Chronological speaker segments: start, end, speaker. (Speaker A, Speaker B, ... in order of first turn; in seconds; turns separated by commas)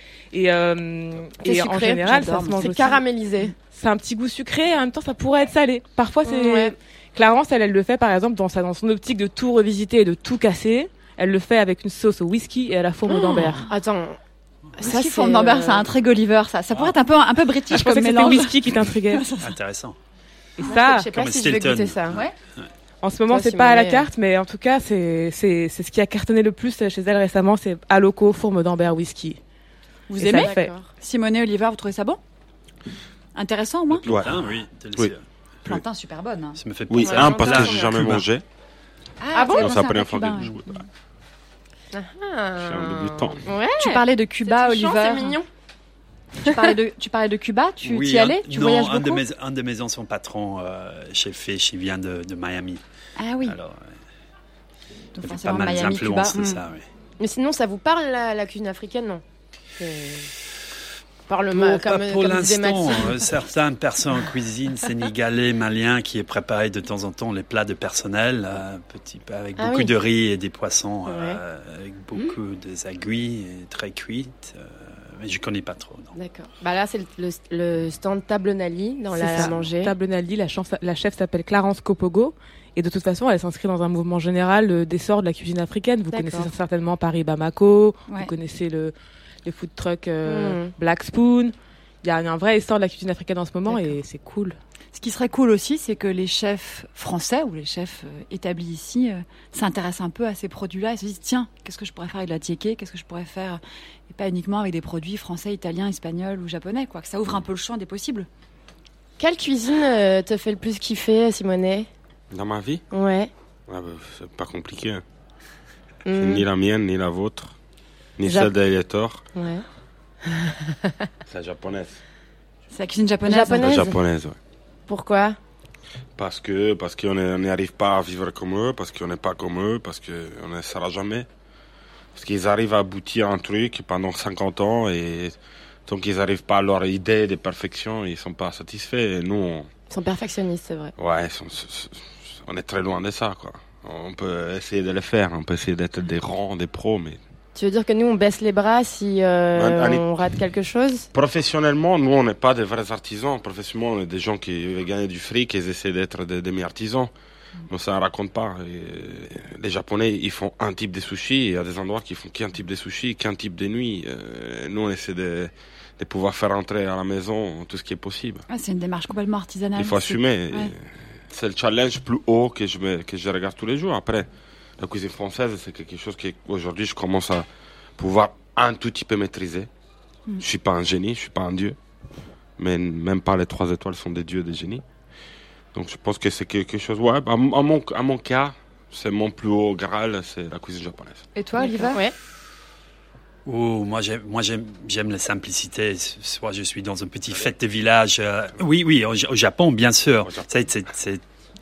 Speaker A: 0.3-3.0, Speaker B: 1.4-3.5, Speaker C: 2.0-3.0, Speaker A: 3.6-13.7, Speaker B: 6.2-6.7, Speaker B: 13.1-14.2, Speaker B: 14.8-15.9, Speaker C: 14.8-19.5, Speaker A: 17.7-19.2, Speaker D: 19.4-20.0, Speaker A: 20.6-21.1, Speaker B: 20.6-22.2, Speaker D: 21.1-22.7, Speaker A: 23.0-29.4, Speaker B: 23.3-24.1, Speaker C: 30.1-32.2, Speaker A: 30.2-30.7, Speaker B: 30.2-30.8, Speaker C: 33.3-34.0, Speaker D: 33.9-35.2, Speaker E: 34.0-34.4, Speaker C: 35.6-36.6, Speaker D: 36.5-38.2, Speaker E: 36.9-38.4, Speaker B: 37.0-37.9, Speaker C: 39.2-40.8, Speaker B: 39.3-39.8, Speaker E: 39.5-40.8, Speaker B: 41.9-45.5, Speaker E: 42.6-43.4, Speaker C: 43.8-45.4, Speaker C: 46.4-49.2, Speaker D: 47.8-52.8, Speaker C: 53.2-53.5, Speaker D: 53.4-53.8, Speaker C: 55.1-56.5, Speaker D: 55.2-56.9, Speaker B: 56.4-56.6, Speaker B: 57.2-59.2, Speaker B: 59.8-60.3, Speaker B: 61.3-63.3, Speaker D: 61.5-76.1, Speaker B: 69.6-69.9, Speaker B: 71.1-71.4, Speaker B: 76.2-79.9, Speaker A: 79.1-88.9, Speaker D: 79.4-79.7, Speaker B: 86.1-86.5, Speaker A: 89.4-94.5, Speaker B: 90.2-90.7, Speaker C: 94.9-108.3, Speaker B: 109.2-111.9, Speaker E: 112.3-112.8, Speaker B: 112.9-113.3, Speaker E: 113.7-115.0, Speaker B: 116.0-116.4, Speaker E: 116.2-117.5, Speaker E: 118.2-119.2, Speaker B: 118.2-118.5, Speaker B: 119.3-119.6, Speaker B: 120.2-121.1, Speaker E: 121.3-122.0, Speaker C: 122.7-123.8, Speaker B: 123.2-124.0, Speaker E: 123.5-124.3, Speaker B: 124.9-125.4, Speaker E: 126.2-131.2, Speaker E: 132.1-135.3, Speaker E: 135.9-139.7, Speaker B: 139.9-140.9, Speaker E: 141.0-147.2, Speaker B: 147.5-151.1, Speaker E: 149.5-150.0, Speaker E: 151.1-157.1, Speaker E: 157.7-168.4, Speaker C: 168.5-170.7, Speaker E: 169.8-174.3, Speaker E: 174.8-177.5, Speaker E: 178.0-179.7, Speaker E: 180.4-181.8, Speaker E: 182.6-184.8, Speaker E: 185.7-191.2, Speaker C: 191.3-192.0, Speaker B: 191.6-192.1, Speaker D: 193.4-201.2